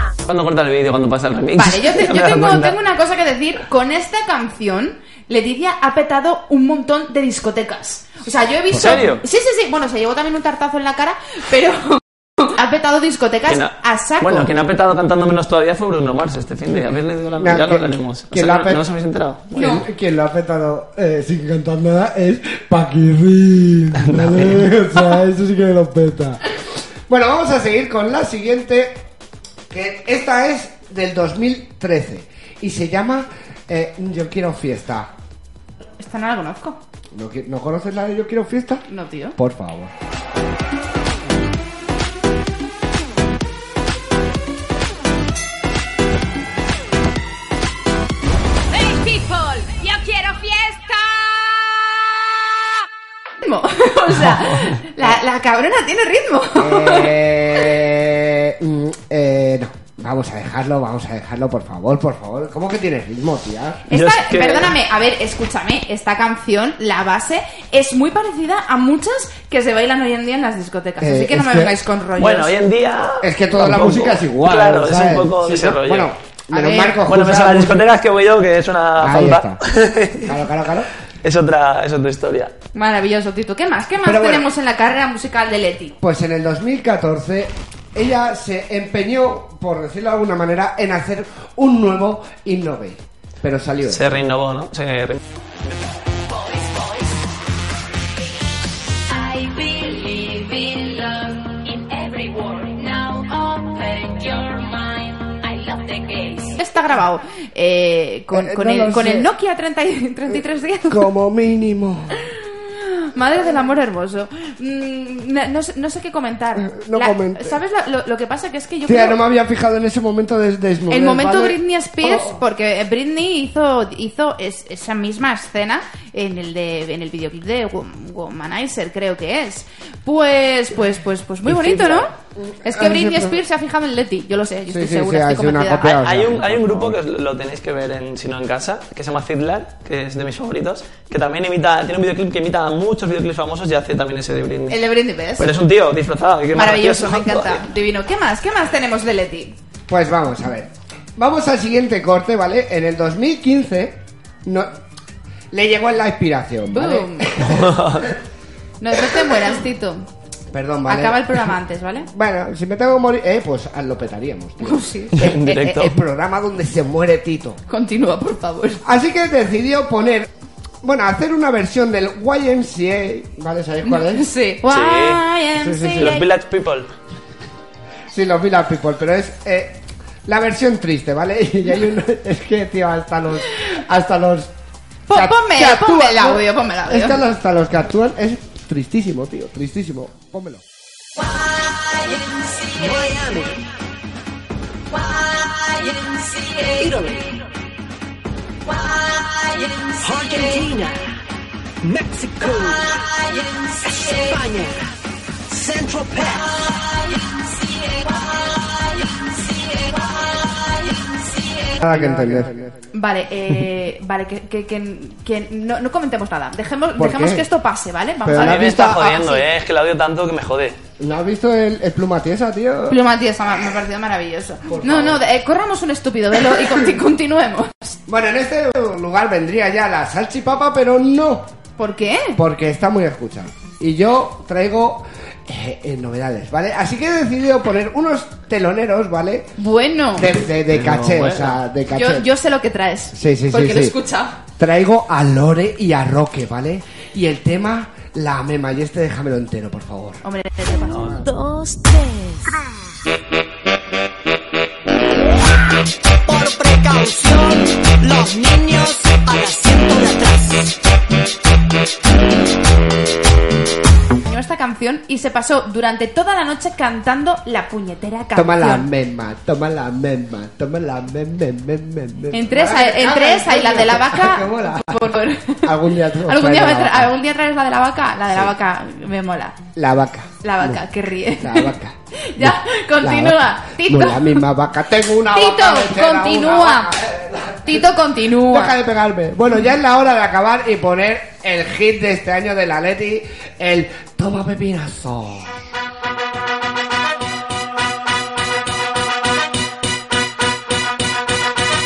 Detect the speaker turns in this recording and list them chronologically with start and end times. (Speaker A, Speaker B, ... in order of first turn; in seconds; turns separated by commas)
Speaker A: 0.2-2.8, Speaker B: 1.6-14.5, Speaker C: 8.7-9.1, Speaker A: 8.7-9.2, Speaker A: 13.5-19.5, Speaker C: 17.4-18.9, Speaker C: 19.5-26.4, Speaker B: 19.5-19.8, Speaker A: 24.0-24.7, Speaker C: 27.1-29.0, Speaker C: 29.7-35.1, Speaker B: 36.0-36.8, Speaker C: 37.1-38.8, Speaker B: 38.9-39.4, Speaker C: 39.4-39.9, Speaker D: 48.7-51.7, Speaker B: 53.4-57.7, Speaker A: 54.3-54.8, Speaker C: 56.6-63.8, Speaker B: 63.9-72.5, Speaker A: 63.9-64.8, Speaker C: 71.0-71.8, Speaker A: 72.2-76.1, Speaker C: 73.2-77.8, Speaker B: 76.5-77.0, Speaker A: 77.0-80.3, Speaker C: 79.0-79.6, Speaker C: 80.2-80.9, Speaker A: 81.2-82.5, Speaker B: 82.8-86.0, Speaker C: 84.0-84.5, Speaker C: 86.0-94.2, Speaker A: 93.9-95.2, Speaker D: 96.3-97.2, Speaker D: 99.1-106.6, Speaker B: 106.6-111.1, Speaker C: 108.3-109.3, Speaker C: 110.9-112.2, Speaker B: 113.0-119.2, Speaker C: 116.5-117.6, Speaker C: 118.8-122.4, Speaker B: 120.9-132.1, Speaker C: 131.5-133.4, Speaker B: 132.6-136.0, Speaker C: 134.7-137.0, Speaker A: 136.0-144.8, Speaker B: 144.7-145.5, Speaker A: 145.4-147.6, Speaker B: 146.5-149.6, Speaker C: 149.9-154.8, Speaker C: 155.5-157.9, Speaker B: 156.7-157.5, Speaker A: 157.4-158.1, Speaker B: 158.8-160.1, Speaker C: 160.5-161.5, Speaker B: 160.9-162.1, Speaker C: 162.1-167.6, Speaker B: 164.6-165.8, Speaker A: 165.2-166.0, Speaker B: 167.7-168.8, Speaker C: 168.8-170.3, Speaker C: 170.8-174.3, Speaker B: 173.8-176.2, Speaker A: 174.7-175.2, Speaker C: 175.6-176.2, Speaker A: 176.0-176.9, Speaker C: 178.1-184.5, Speaker B: 185.1-187.2, Speaker C: 185.1-190.6, Speaker E: 191.2-193.6, Speaker E: 194.9-197.3, Speaker E: 198.7-201.0, Speaker E: 201.8-204.9, Speaker E: 205.5-211.8, Speaker C: 211.8-212.7, Speaker B: 212.9-219.5, Speaker C: 217.0-217.5, Speaker C: 218.2-219.0, Speaker A: 218.3-220.8, Speaker C: 221.0-223.0, Speaker B: 222.9-228.0, Speaker C: 224.7-225.2, Speaker C: 228.1-231.5, Speaker B: 231.8-232.4, Speaker C: 232.3-239.5, Speaker B: 239.6-240.3, Speaker C: 240.2-242.3, Speaker A: 240.7-241.6, Speaker B: 241.9-244.4, Speaker C: 243.1-244.0, Speaker C: 244.6-250.2, Speaker B: 250.2-251.1, Speaker A: 250.9-251.2, Speaker E: 251.0-252.5, Speaker E: 256.2-260.8, Speaker B: 264.2-268.9, Speaker C: 268.3-277.1, Speaker B: 272.3-279.6, Speaker C: 279.8-280.8, Speaker B: 280.4-281.7, Speaker C: 281.3-295.6, Speaker B: 282.2-284.4, Speaker B: 285.3-287.0, Speaker B: 287.6-288.8